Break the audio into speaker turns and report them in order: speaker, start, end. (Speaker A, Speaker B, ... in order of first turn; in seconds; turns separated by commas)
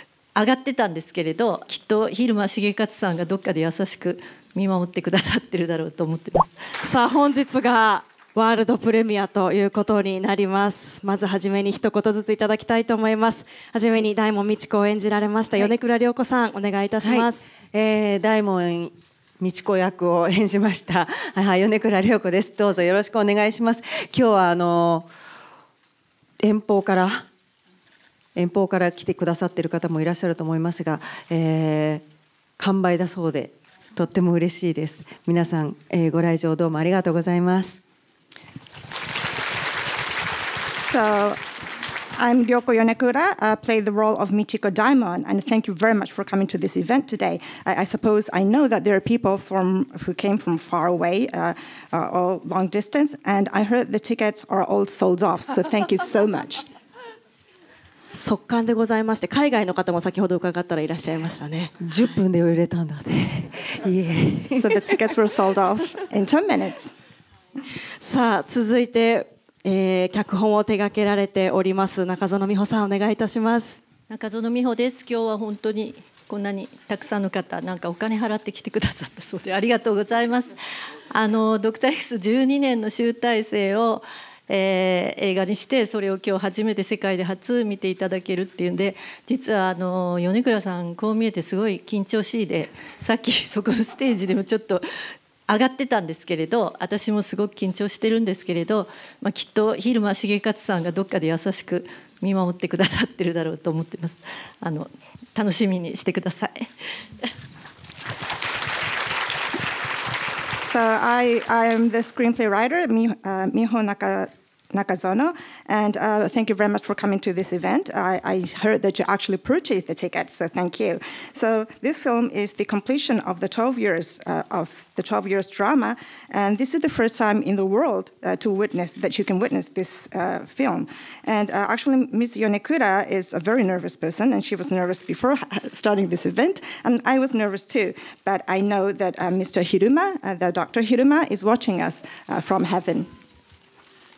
Speaker A: 0.3-6.6, Speaker B: 6.8-17.5, Speaker C: 17.0-25.1, Speaker C: 26.4-27.3, Speaker C: 28.4-32.0, Speaker C: 32.6-37.8, Speaker D: 40.8-41.4, Speaker D: 42.1-56.6, Speaker B: 58.1-61.7, Speaker C: 61.8-64.8, Speaker D: 64.5-66.9, Speaker B: 68.0-73.8, Speaker A: 74.1-80.6, Speaker A: 81.1-94.8, Speaker A: 95.5-106.7, Speaker D: 110.6-143.1